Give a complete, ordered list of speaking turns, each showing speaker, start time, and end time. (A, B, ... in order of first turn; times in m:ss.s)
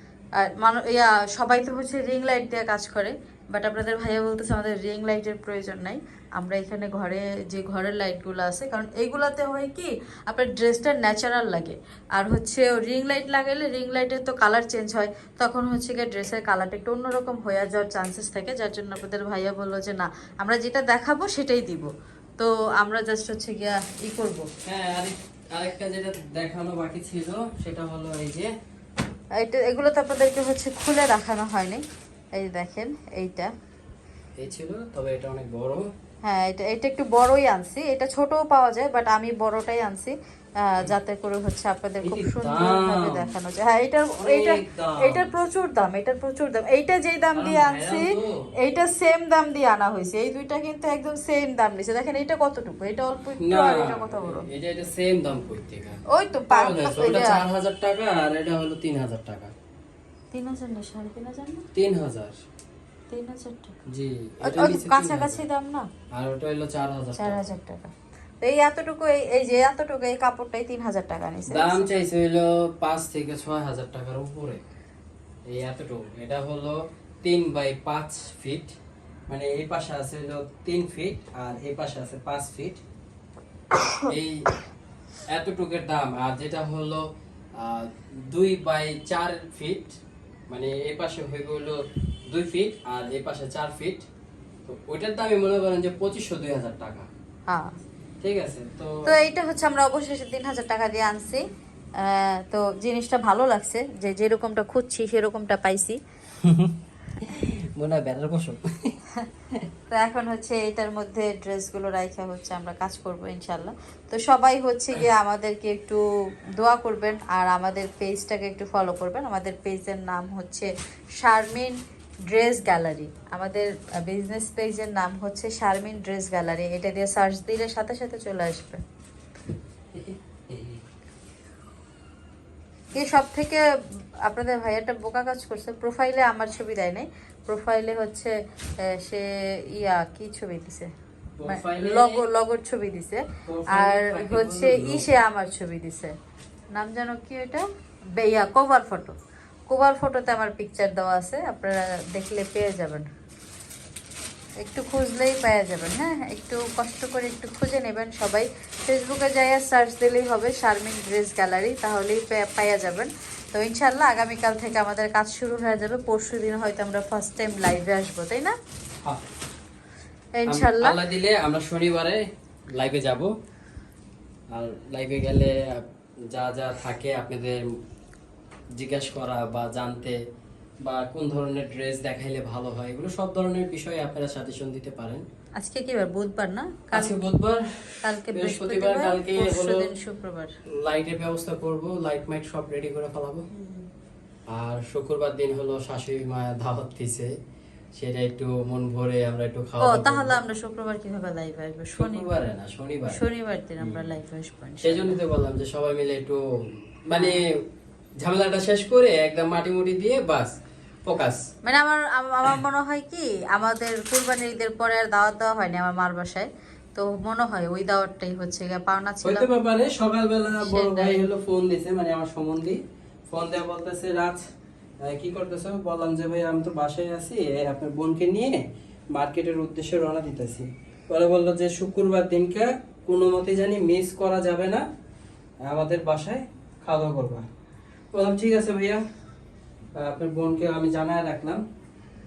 0:00.4-0:24.5 A
0:24.6-0:28.5 B
0:29.4-0:31.8 A
0:32.4-0:33.5 A
0:34.4-0:35.8 B
0:36.2-0:48.1 A
0:42.0-0:43.3 B
0:44.2-0:45.3 B
0:47.3-0:48.4 B
0:48.6-0:54.4 A
0:53.4-0:56.0 B
0:56.1-0:57.4 A
0:56.5-0:59.5 B
1:00.3-1:01.6 A
1:01.7-1:02.4 B
1:03.1-1:03.7 A
1:03.9-1:05.4 B
1:04.4-1:05.9 A
1:06.2-1:07.4 B
1:07.2-1:11.8 A
1:11.5-1:14.6 B
1:15.5-1:18.7 B
1:19.3-1:22.8 B
1:24.1-1:24.5 B
1:25.3-1:27.0 B
1:27.6-1:30.0 B
1:30.5-1:31.8 B
1:32.3-1:34.0 B
1:34.6-1:37.1 B
1:37.5-1:37.7 A
1:38.2-1:39.1 B
1:39.0-1:41.4 A
1:42.0-1:46.0 A
1:46.4-1:49.0 B
1:49.9-1:56.0 A
1:56.6-2:01.8 A
2:02.3-2:08.8 A
2:09.9-2:10.8 B
2:12.9-2:13.6 A
2:14.2-2:18.3 A
2:18.8-2:20.9 A
2:21.4-2:22.2 B
2:21.4-2:26.1 A
2:23.4-2:25.1 B
2:26.7-2:27.6 A
2:28.2-2:29.1 A
2:29.7-2:33.0 A
2:34.6-2:48.6 A
2:50.4-2:51.0 A
2:50.5-2:52.2 B
2:52.7-2:53.3 B
2:54.5-2:57.6 B
2:58.8-3:00.2 B
3:00.8-3:05.2 B
3:05.6-3:07.2 A
3:06.9-3:09.9 B
3:08.0-3:10.5 A
3:10.8-3:13.5 B
3:14.5-3:17.3 B
3:17.9-3:20.3 B
3:19.8-3:22.3 A
3:22.0-3:23.2 B
3:23.1-3:25.2 A
3:24.8-3:26.4 B
3:27.0-3:27.4 B
3:27.1-3:27.4 A
3:28.2-3:30.5 B
3:31.0-3:31.4 B
3:31.6-3:39.4 A
3:39.2-3:44.4 B
3:40.5-3:41.2 A
3:45.0-3:54.8 B
3:55.6-3:57.4 B
3:58.1-3:59.0 B
4:00.0-4:01.6 B